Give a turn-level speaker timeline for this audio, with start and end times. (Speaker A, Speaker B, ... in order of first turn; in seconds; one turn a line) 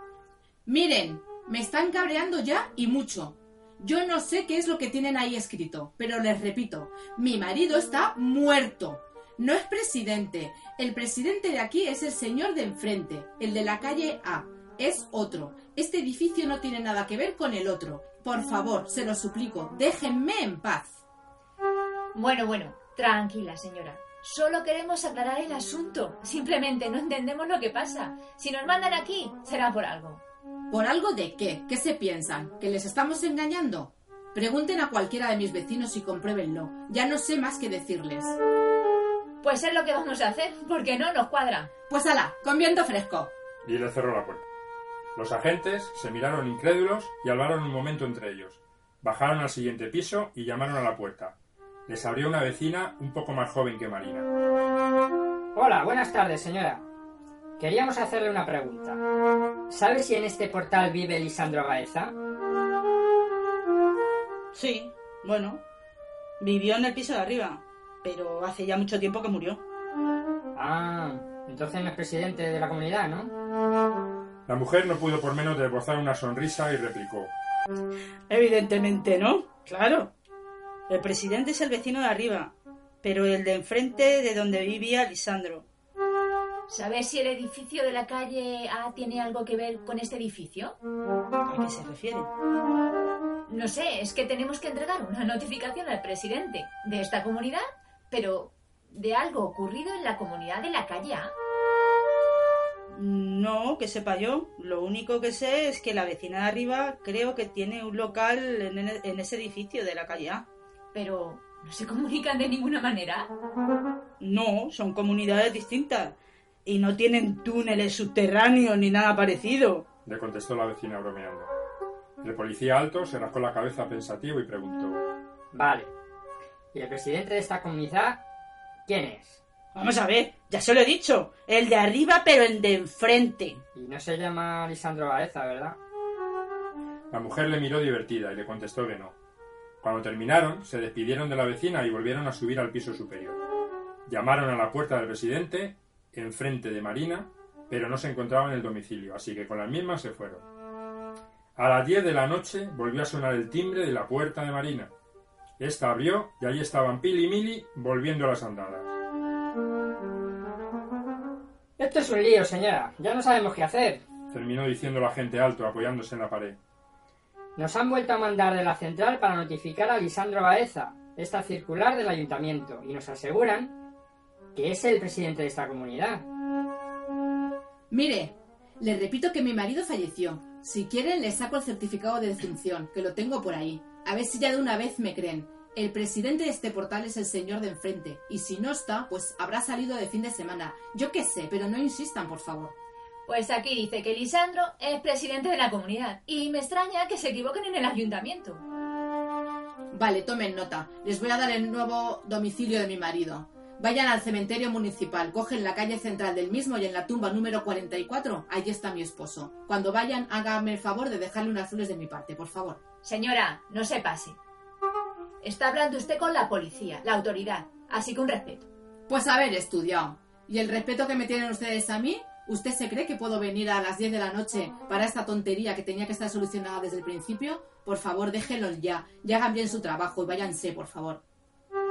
Speaker A: 0.7-21.0
Speaker B: 22.1-30.2
Speaker A: 30.7-38.4
Speaker B: 39.4-41.7
Speaker A: 41.9-43.3
Speaker C: 43.6-44.5
Speaker C: 45.1-54.3
Speaker D: 55.5-56.9
Speaker D: 57.6-59.0
Speaker D: 59.7-62.1
Speaker E: 64.5-65.6
Speaker E: 66.4-69.6
Speaker D: 70.5-73.3
Speaker C: 74.5-77.3
Speaker E: 78.3-80.1
Speaker E: 80.9-85.7
Speaker B: 86.7-90.8
Speaker E: 91.4-92.3
Speaker B: 93.5-101.3
Speaker E: 102.9-110.5
Speaker B: 110.9-113.3
Speaker E: 114.2-119.8
Speaker C: 120.1-121.5
Speaker C: 122.2-125.0
Speaker D: 125.5-125.9
Speaker D: 126.7-128.2
Speaker D: 128.9-129.4
Speaker E: 129.7-133.6
Speaker D: 133.8-135.8
Speaker C: 137.1-139.2
Speaker C: 139.8-143.4
Speaker C: 144.1-150.5
Speaker C: 151.6-154.9
Speaker C: 155.6-159.0
Speaker D: 161.8-164.1
Speaker C: 164.3-166.6
Speaker D: 167.6-173.7
Speaker D: 174.6-176.2
Speaker A: 177.9-192.7
Speaker B: 193.3-198.6
Speaker A: 199.9-212.8
Speaker B: 213.0-214.4
Speaker B: 215.4-218.7
Speaker A: 219.1-231.2